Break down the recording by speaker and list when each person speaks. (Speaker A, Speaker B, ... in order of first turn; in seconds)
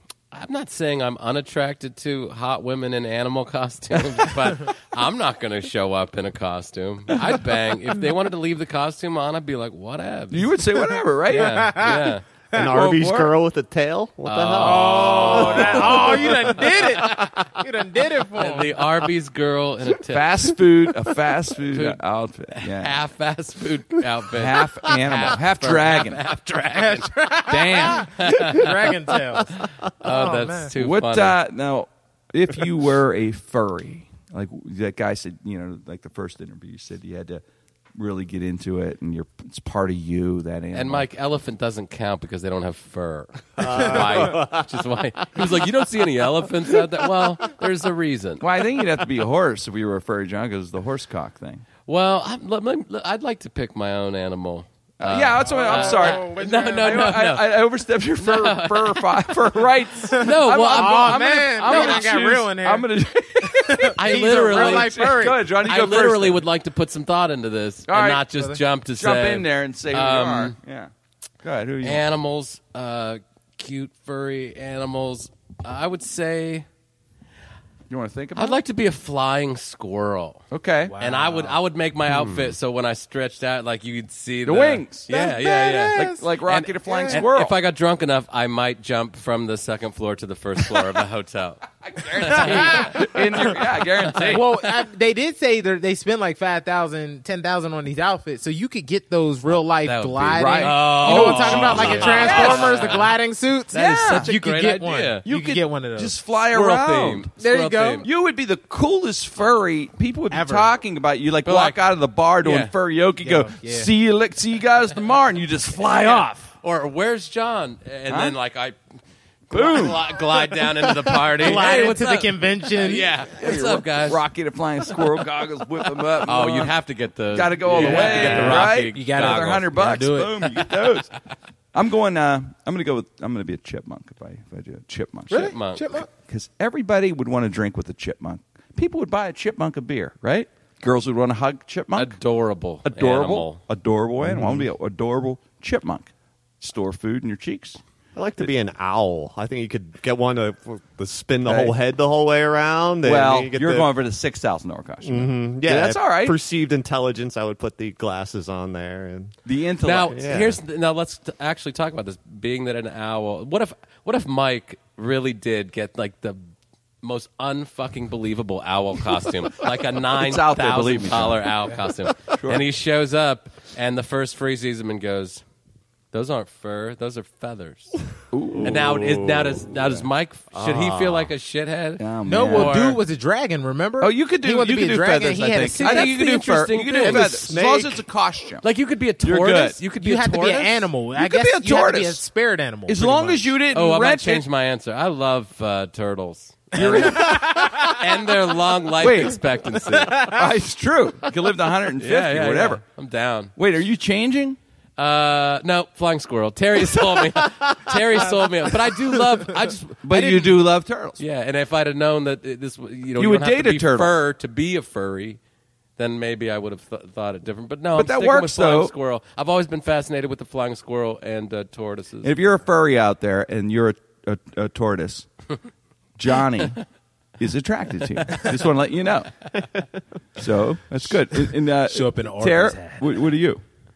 Speaker A: 0.3-10.6, 11.3-12.2, 14.2-17.2, 18.4-20.6, 21.7-27.1, 28.1-28.9, 30.0-31.4, 40.7-48.4, 51.9-57.6, 58.2-62.1, 64.0-70.5, 71.8-76.7, 78.4-80.4, 81.0-91.6, 92.2-93.1, 99.5-103.2, 103.7-105.2, 106.5-108.1, 111.4-111.8, 112.4-112.7, 115.9-118.8, 119.5-124.2, 126.2-129.7, 135.3-136.0, 141.9-143.6, 159.8-166.4, 167.0-175.4, 176.1-178.0, 178.6-183.0, 185.7-187.5, 188.6-190.9, 193.7-200.3, 202.0-203.5, 205.0-210.0, 211.2-215.4, 216.0-222.3
Speaker B: 10.3-11.7, 12.6-13.3, 20.1-23.0, 24.3-26.2, 27.5-28.1, 30.8-37.4, 38.0-41.1, 48.4-51.6, 55.0-66.4, 67.9-68.2, 69.0-70.9, 71.4-72.0, 77.9-78.6, 80.5-80.9, 84.4-85.1, 85.9-87.5, 91.8-94.6, 100.4-103.0, 103.7-104.3, 105.2-107.3, 108.0-116.5, 118.1-118.4, 119.5-120.1, 121.4-122.0, 123.3-126.7, 127.3-131.1, 131.7-135.6, 136.3-142.2, 142.8-147.8, 151.4-151.7, 153.0-156.4, 159.4-160.2, 170.2-171.5, 178.3-178.8, 182.0-182.7, 184.0-188.7, 189.2-189.8, 191.2-192.2, 192.9-194.4, 196.7-197.6, 199.0-199.4, 200.3-202.8, 203.6-204.6, 210.0-211.2, 213.2-214.1, 217.9-218.9, 222.2-225.3, 226.2-226.8, 227.4-229.3, 230.4-233.6
Speaker C: 11.3-12.7, 14.6-18.8, 26.7-30.7, 55.5-57.0, 60.2-62.9, 63.4-65.4, 68.4-68.6, 80.9-81.6, 85.1-86.2, 86.9-87.2, 92.4-93.2, 94.3-106.1, 107.4-108.1, 110.3-110.7, 113.2-113.9, 121.3-123.1, 127.7-130.7, 135.7-136.1, 182.2-186.1, 190.0-193.5, 196.8-198.0, 199.9-200.4, 210.1-210.5, 231.5-233.1
Speaker D: 12.5-17.4, 43.6-45.6, 82.1-82.5, 144.2-144.7, 148.1-153.9, 155.0-159.4, 160.1-160.6, 178.5-181.3, 187.0-188.0